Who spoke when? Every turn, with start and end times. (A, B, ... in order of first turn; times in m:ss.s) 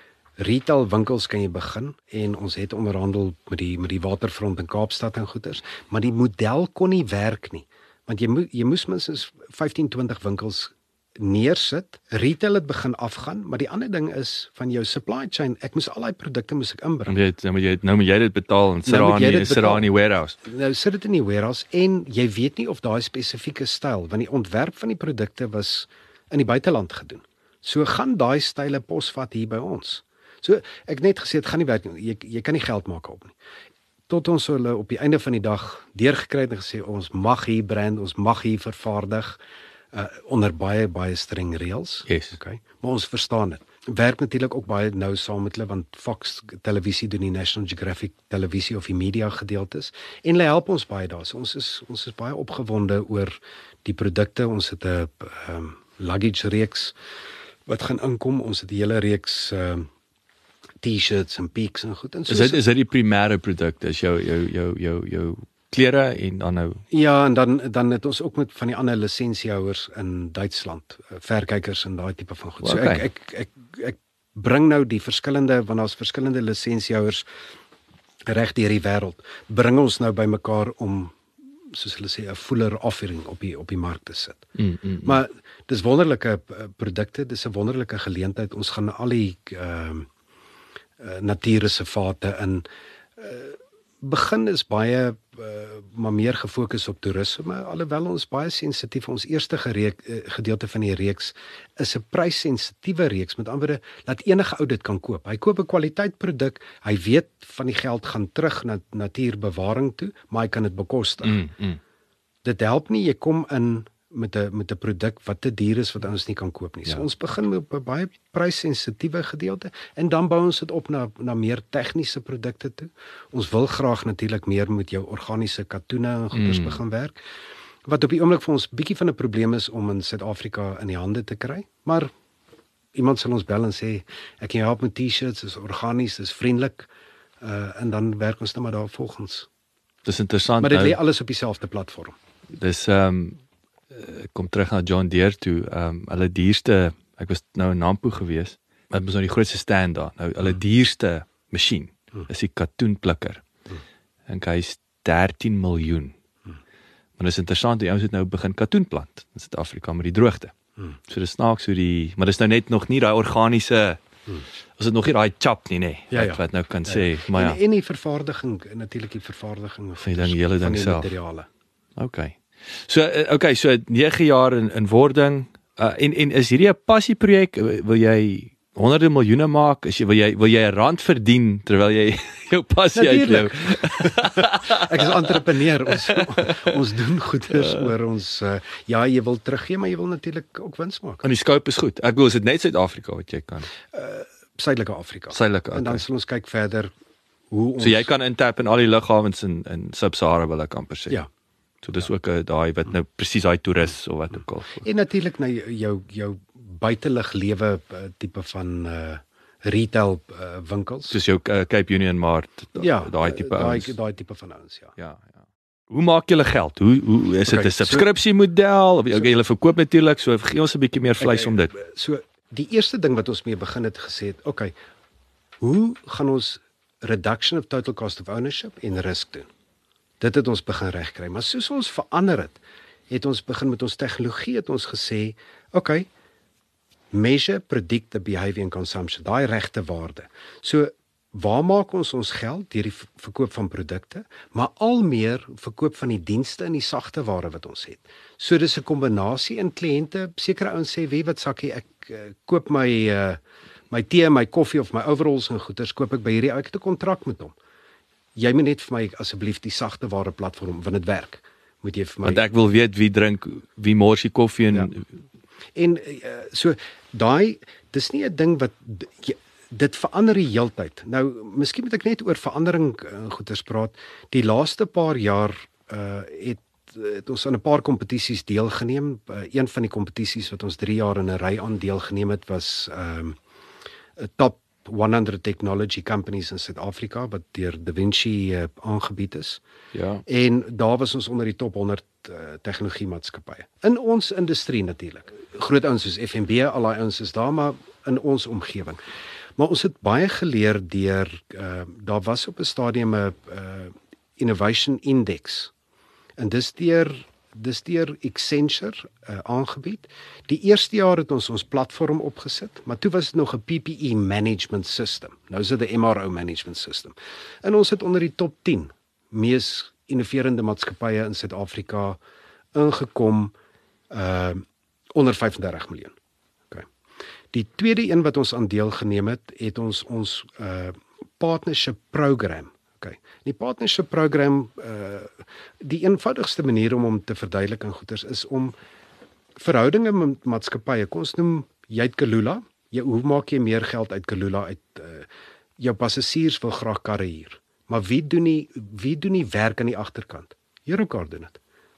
0:00.4-0:17.2 A
0:17.1-0:20.4 B
0:18.9-0:19.9 A
0:20.4-0:33.3 A
0:34.1-0:39.4 A
0:39.9-0:56.9 A
0:42.1-0:42.4 B
0:57.7-0:59.9 A
1:00.8-1:02.6 A
1:02.3-1:06.8 B
1:06.9-1:17.2 A
1:12.6-1:13.0 B
1:18.3-1:21.2 A
1:21.7-1:24.4 A
1:24.6-1:25.2 B
1:25.0-1:30.1 A
1:31.0-1:32.6 A
1:33.2-1:51.4 A
1:51.2-1:51.8 B
1:52.4-2:07.2 A
2:06.3-2:06.8 B
2:07.9-2:12.1 A
2:13.0-2:16.9 A
2:17.4-2:19.5 A
2:20.0-2:21.0 B
2:20.6-2:22.2 A
2:22.5-2:23.4 B
2:23.9-2:33.4 B
2:34.3-2:36.2 B
2:37.2-2:40.5 B
2:41.1-2:44.0 B
2:44.8-2:47.6 B
2:46.1-2:51.5 A
2:50.0-2:51.1 B
2:52.0-3:06.7 B
3:03.0-3:11.2 A
3:07.5-3:07.9 B
3:11.2-3:13.7 B
3:13.9-3:16.9 A
3:15.3-3:16.0 B
3:17.5-3:18.1 A
3:17.8-3:21.2 B
3:21.8-3:24.8 B
3:24.8-3:31.2 A
3:31.1-3:33.9 B
3:32.8-3:34.9 A
3:35.0-3:41.7 B
3:37.5-3:38.1 A
3:41.2-3:44.7 A
3:45.6-3:49.5 A
3:50.2-3:56.1 A
3:57.1-4:13.4 A
4:13.9-4:17.6 A
4:18.4-4:22.4 A
4:22.2-4:25.1 B
4:25.8-4:43.4 A
4:44.2-4:49.6 A
4:49.9-4:50.2 B
4:50.3-4:59.0 A
4:59.6-5:05.7 A
5:06.4-5:22.2 A
5:22.7-5:23.6 A
5:24.1-5:26.2 A
5:27.5-5:38.7 A
5:39.6-5:45.3 A
5:45.8-5:51.6 A